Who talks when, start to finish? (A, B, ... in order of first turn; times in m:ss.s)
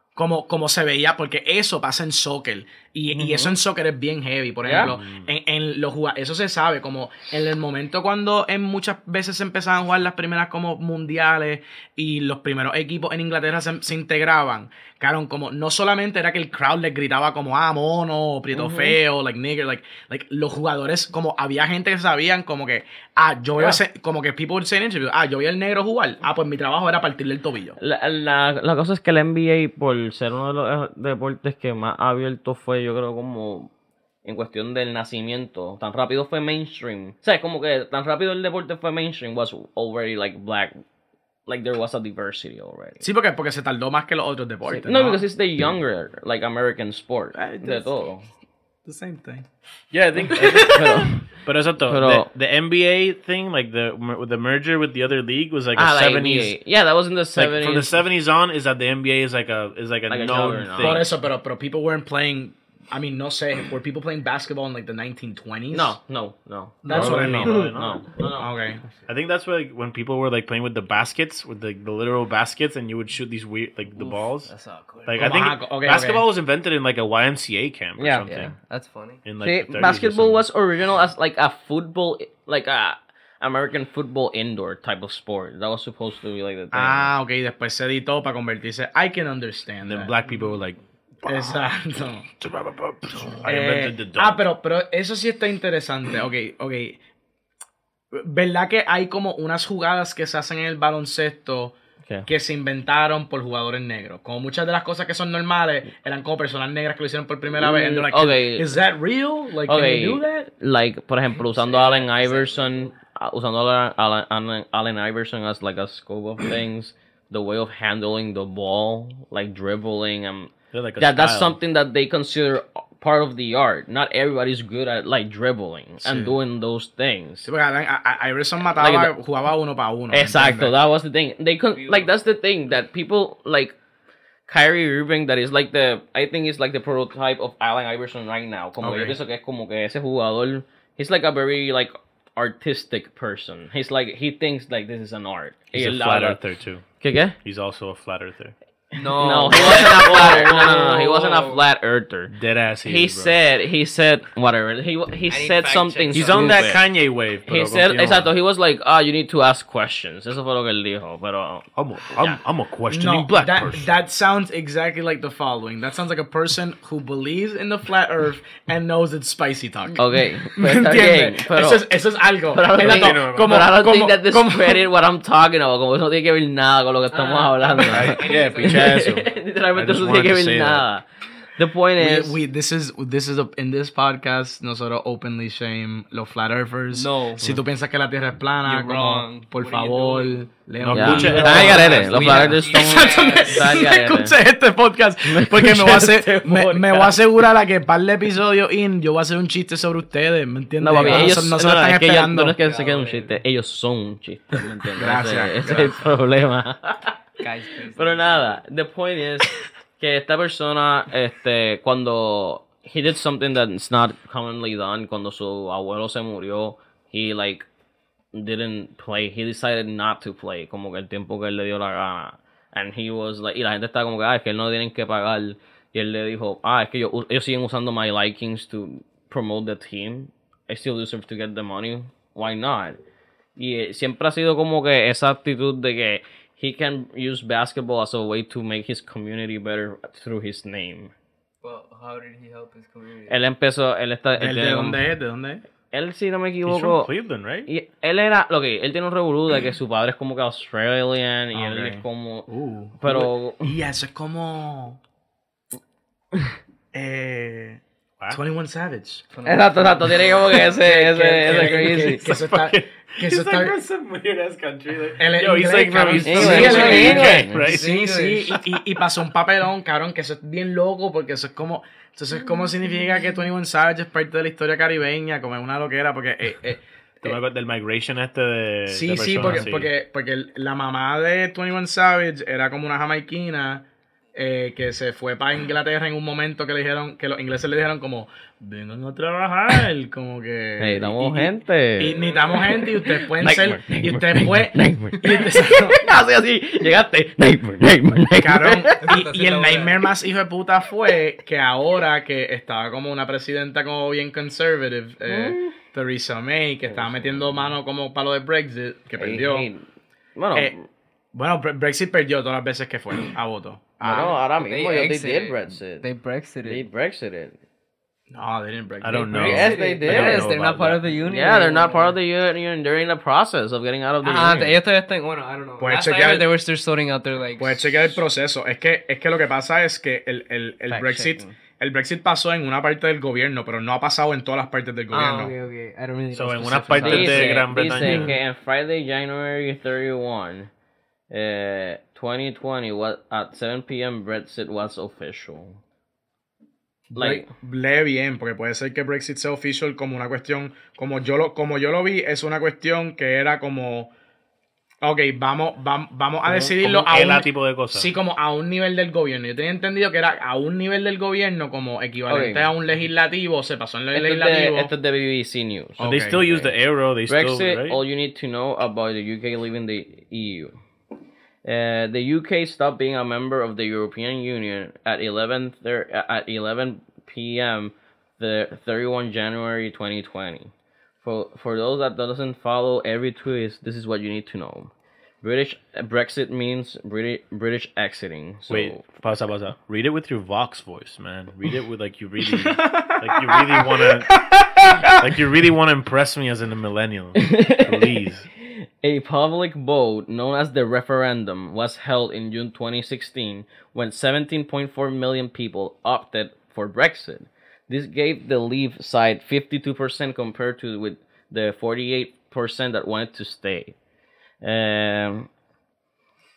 0:00.2-0:27.8 A
0:03.1-0:03.6 B
0:04.6-0:05.0 B
0:04.8-0:05.3 C
0:18.5-0:19.0 B
0:27.8-0:33.7 B
0:34.2-0:40.8 B
0:41.5-0:43.1 B
0:43.0-0:45.2 A
0:44.7-0:48.3 B
0:47.3-0:47.9 A
0:48.8-0:49.5 A
0:49.9-0:56.6 C
0:50.3-0:51.2 B
0:50.4-0:50.9 D
0:51.8-0:52.3 B
0:55.8-0:58.0 B
0:57.4-1:01.2 C
1:00.1-1:01.1 B
1:00.8-1:06.0 A
1:05.7-1:08.5 B
1:06.8-1:07.7 D
1:06.9-1:07.7 A
1:06.9-1:08.0 C
1:08.4-1:08.8 A
1:09.1-1:14.5 C
1:14.0-1:15.3 D
1:15.1-1:18.5 C
1:15.2-1:16.3 A
1:18.0-1:18.3 B
1:18.3-1:19.2 D
1:19.2-1:20.4 C
1:19.4-1:27.1 B
1:26.7-1:30.1 A
1:29.8-1:31.6 C
1:31.3-1:32.3 A
1:32.4-1:34.4 C
1:33.4-1:37.0 A
1:38.1-1:41.8 A
1:42.3-1:50.5 A
1:47.5-1:48.7 B
1:49.7-2:07.5 B
1:51.3-1:53.0 D
2:00.7-2:01.6 C
2:06.0-2:06.4 A
2:07.4-2:10.7 A
2:08.7-2:09.1 B
2:10.1-2:13.8 B
2:11.7-2:12.1 D
2:14.5-2:26.4 B
2:18.8-2:19.2 A
2:25.7-2:26.8 C
2:27.0-2:27.4 B
2:27.4-2:28.6 C
2:28.9-2:31.6 D
2:29.1-2:32.3 B
2:32.3-2:33.3 C
2:32.8-2:36.8 B
2:35.3-2:36.8 D
2:36.1-2:38.3 C
2:37.5-2:42.4 B
2:41.8-2:43.9 C
2:42.9-2:54.8 A
2:49.9-2:51.9 B
2:52.5-3:01.0 B
2:52.8-2:53.6 C
2:57.1-2:59.2 D
2:57.9-3:00.9 C
3:01.6-3:02.4 B
3:02.0-3:22.6 A
3:06.9-3:07.4 D
3:08.6-3:10.5 D
3:10.8-3:12.5 C
3:10.9-3:14.4 B
3:11.2-3:13.8 D
3:15.2-3:17.2 B
3:20.8-3:27.2 B
3:21.0-3:21.4 D
3:22.6-3:23.4 D
3:25.0-3:26.0 A
3:27.4-3:28.6 D
3:27.9-3:37.7 B
3:38.3-3:53.0 B
3:53.6-4:01.1 B
4:01.6-4:03.4 D
4:03.3-4:05.0 B
4:04.4-4:05.6 A
4:05.9-4:07.1 B
4:06.6-4:07.7 C
4:07.7-4:13.7 B
4:11.5-4:15.0 A
4:16.9-4:19.2 A
4:19.3-4:20.7 D
4:19.4-4:22.3 B
4:20.8-4:23.8 A
4:22.0-4:28.8 C
4:25.2-4:37.4 A
4:26.2-4:27.6 B
4:26.3-4:28.5 D
4:37.2-4:39.9 C
4:38.9-4:56.0 A
4:50.8-4:52.2 B
4:52.0-4:52.8 D
4:52.8-4:59.2 B
4:58.3-5:09.7 A
4:59.0-5:00.1 D
5:05.2-5:05.8 B
5:06.9-5:07.8 B
5:09.2-5:09.8 B
5:10.4-5:10.8 B
5:11.3-5:14.4 A
5:14.0-5:16.1 B
5:14.1-5:16.8 D
5:16.6-5:17.6 B
5:18.3-5:19.7 A
5:19.0-5:21.0 C
5:19.3-5:20.5 B
5:19.3-5:22.2 D
5:21.2-5:24.8 B
5:24.2-5:28.2 D
5:25.8-5:26.5 A
5:27.6-5:35.5 A
5:30.9-5:31.5 D
5:35.1-5:38.3 D
5:36.3-5:38.3 C
5:37.0-5:40.7 B
5:41.3-5:45.8 B
5:47.1-5:54.1 A
5:47.2-5:47.5 B
5:55.0-6:04.9 A
5:56.4-5:58.1 C
6:02.3-6:02.7 B
6:04.1-6:06.7 B
6:06.0-6:06.5 A
6:06.0-6:08.0 C
6:07.3-6:10.7 B
6:11.6-6:29.0 B
6:28.7-6:34.4 C
6:32.4-6:35.4 A
6:35.1-6:38.5 C
6:37.4-6:54.0 B
6:54.6-6:55.5 B